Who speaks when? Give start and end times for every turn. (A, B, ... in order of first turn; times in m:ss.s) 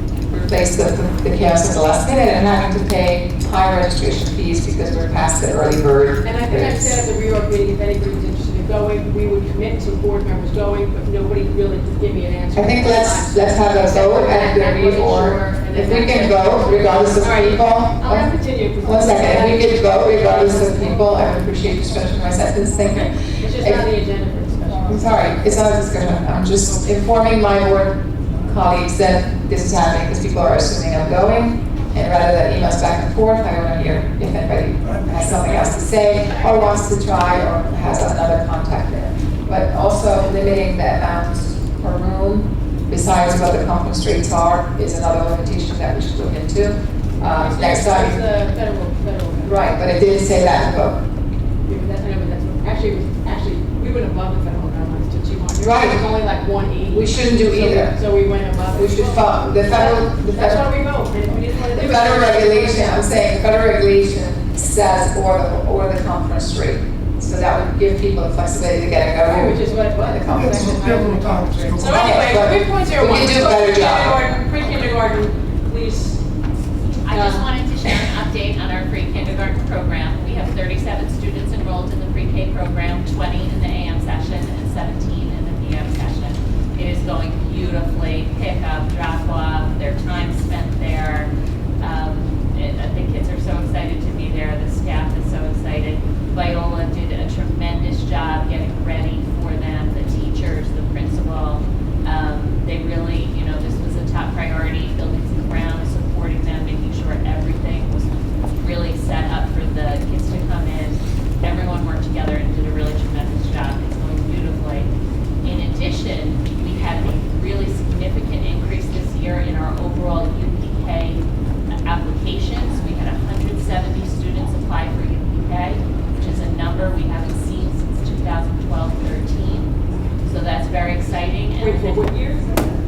0:00.3-0:07.0 A
0:06.2-0:20.9 B
0:12.6-0:18.3 A
0:18.8-0:23.8 A
0:23.2-0:25.1 B
0:24.9-0:48.2 A
0:47.3-0:49.8 B
0:49.4-0:51.0 A
0:51.7-1:03.1 B
0:55.6-0:56.0 A
0:56.9-0:57.9 A
0:58.7-1:00.6 A
1:01.7-1:14.3 A
1:09.3-1:16.2 B
1:17.0-1:48.1 C
1:17.1-1:17.5 B
1:48.6-1:54.9 C
1:55.4-2:01.3 C
2:01.8-2:09.7 C
2:10.3-2:12.1 C
2:11.6-2:12.8 B